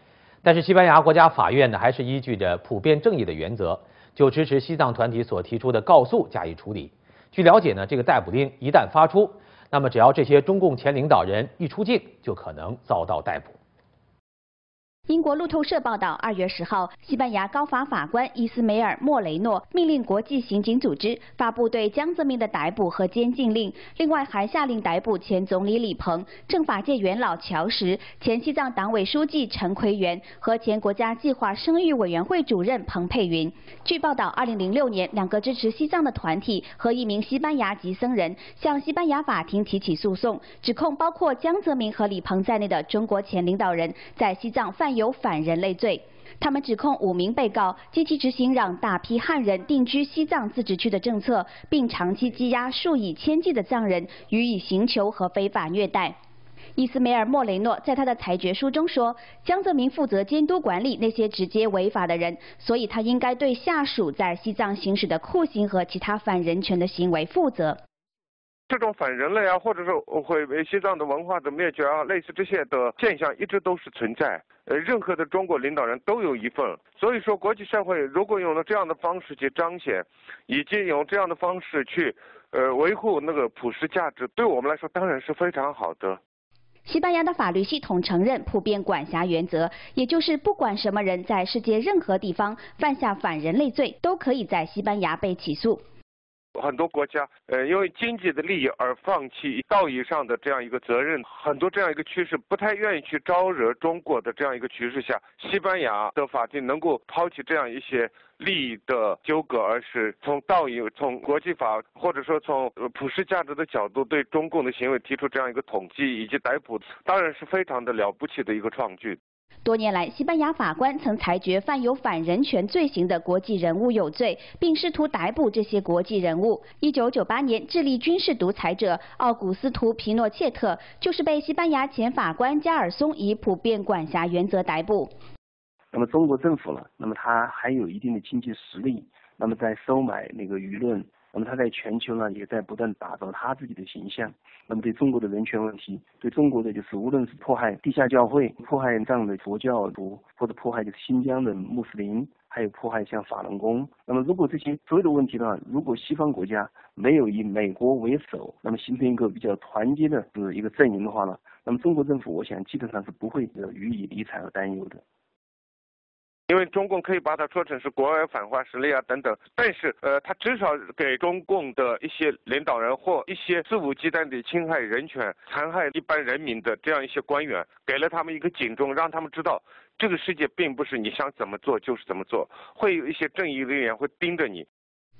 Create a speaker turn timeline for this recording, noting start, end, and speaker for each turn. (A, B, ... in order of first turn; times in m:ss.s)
0:00.4-0:13.6 A
0:15.1-0:56.2 B
0:56.8-1:07.8 B
1:08.7-1:26.2 C
1:26.8-1:35.8 B
1:36.5-1:59.2 C
1:59.6-2:15.1 B
2:15.9-2:45.0 D
2:46.5-3:04.6 C